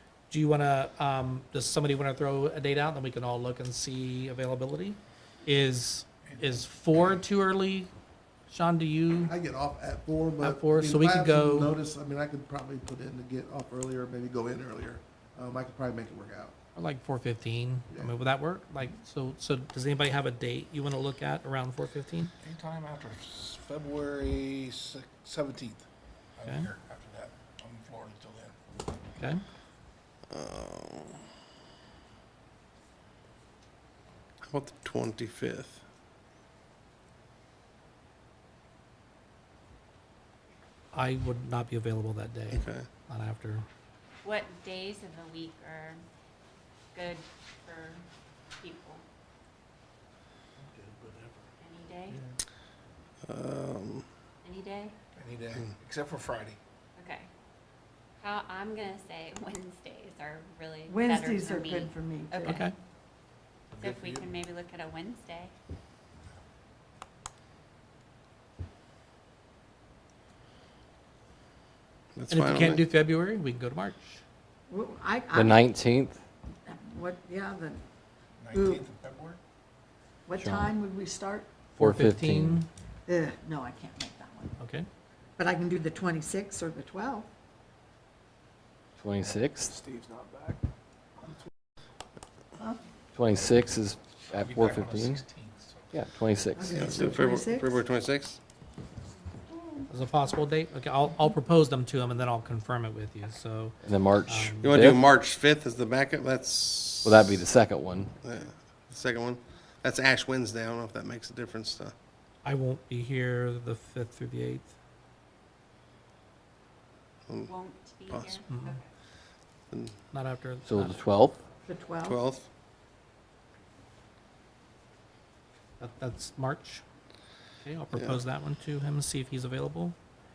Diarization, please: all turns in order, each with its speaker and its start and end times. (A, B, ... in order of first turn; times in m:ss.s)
0:00.3-0:07.9 A
0:06.2-0:07.2 B
0:08.5-0:09.4 A
0:09.2-0:16.5 C
0:10.4-0:11.8 A
0:16.7-0:22.3 A
0:17.9-0:18.2 C
0:22.4-0:25.8 B
0:26.4-0:28.6 B
0:30.3-0:31.2 D
0:34.5-0:35.8 D
0:40.9-0:43.6 A
0:42.5-0:42.8 D
0:44.2-0:46.0 E
0:46.9-0:48.0 E
0:48.6-0:49.0 E
0:50.6-0:51.5 B
0:51.6-0:52.2 E
0:53.2-0:54.0 D
0:54.4-0:54.9 E
0:55.2-0:56.6 B
0:57.0-0:57.3 E
0:58.2-1:02.7 E
1:00.9-1:02.6 F
1:02.5-1:02.7 A
1:03.7-1:04.3 B
1:03.8-1:05.5 E
1:12.1-1:12.8 D
1:12.3-1:14.2 A
1:14.7-1:15.6 F
1:15.3-1:16.2 G
1:16.6-1:17.8 F
1:18.4-1:19.4 B
1:18.5-1:18.8 F
1:20.2-1:21.5 F
1:20.4-1:20.7 G
1:21.8-1:22.7 A
1:21.8-1:22.6 G
1:23.1-1:24.6 F
1:24.6-1:24.9 A
1:25.4-1:27.3 F
1:29.0-1:29.7 G
1:29.7-1:30.6 B
1:33.1-1:35.2 G
1:34.3-1:35.8 B
1:35.9-1:37.1 G
1:36.6-1:37.7 F
1:36.7-1:38.4 D
1:39.9-1:44.8 A
1:43.8-1:45.0 G
1:44.6-1:47.4 D
1:47.0-1:48.1 G
1:48.2-1:51.9 D
1:52.4-1:54.7 A
1:57.5-1:58.9 E
1:58.1-1:58.4 D
1:58.5-1:58.8 A
1:59.7-2:00.0 D
2:00.1-2:01.0 A
2:00.6-2:01.4 G
2:01.7-2:02.2 F
2:02.0-2:02.5 D
2:05.8-2:06.8 A
2:07.6-2:10.0 A
2:07.9-2:08.2 D